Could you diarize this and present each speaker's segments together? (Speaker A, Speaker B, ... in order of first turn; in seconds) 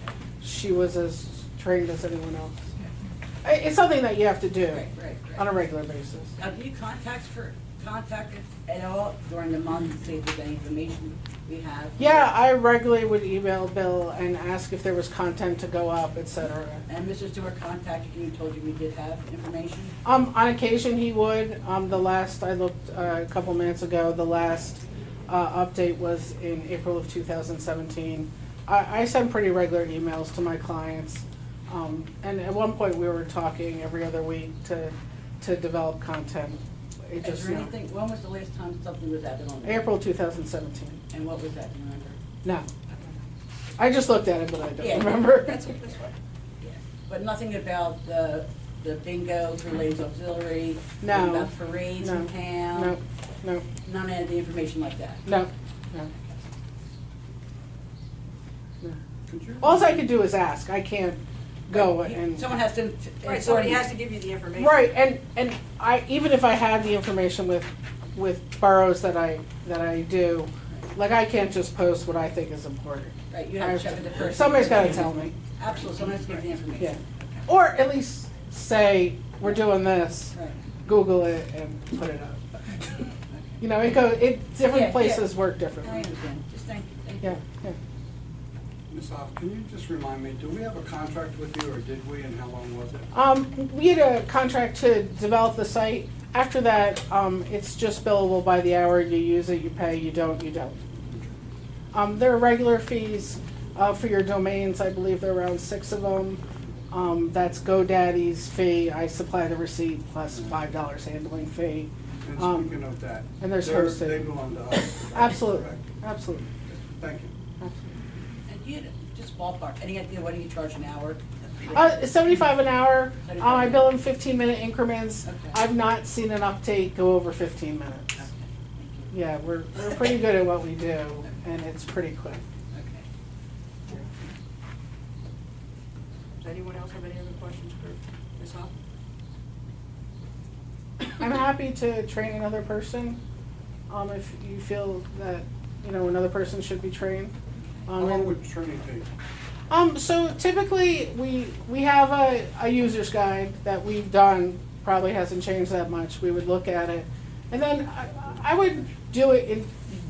Speaker A: 0.4-2.6, 3.4-6.3, 12.0-16.8, 20.0-37.7, 39.6-41.0, 42.4-42.7, 43.8-46.0, 51.0-53.6, 55.2-56.1, 59.6-62.5, 64.6-75.3, 76.8-86.1, 87.2-87.8, 93.1-100.8, 101.9-112.8, 113.4-114.3, 115.1-116.5, 117.6-117.9, 121.7-128.3, 129.1-132.4, 141.0-143.2, 143.9-147.3, 147.9-148.3, 149.7-159.8
Speaker B: 4.7-5.5, 6.4-12.3, 16.9-19.9, 37.2-40.0, 41.1-42.2, 44.8-45.8, 46.6-53.0, 53.8-55.3, 61.7-63.8, 73.3-77.5, 80.3-80.6, 83.3-83.6, 84.6-87.4, 118.5-121.9, 123.2-123.9, 125.2-125.6, 128.2-129.1, 132.7-133.1
Speaker C: 59.3-59.8, 88.9-93.1, 101.1-101.3, 112.2-115.8, 117.0-117.3, 148.0-149.1
Speaker D: 63.2-64.9, 136.4-138.7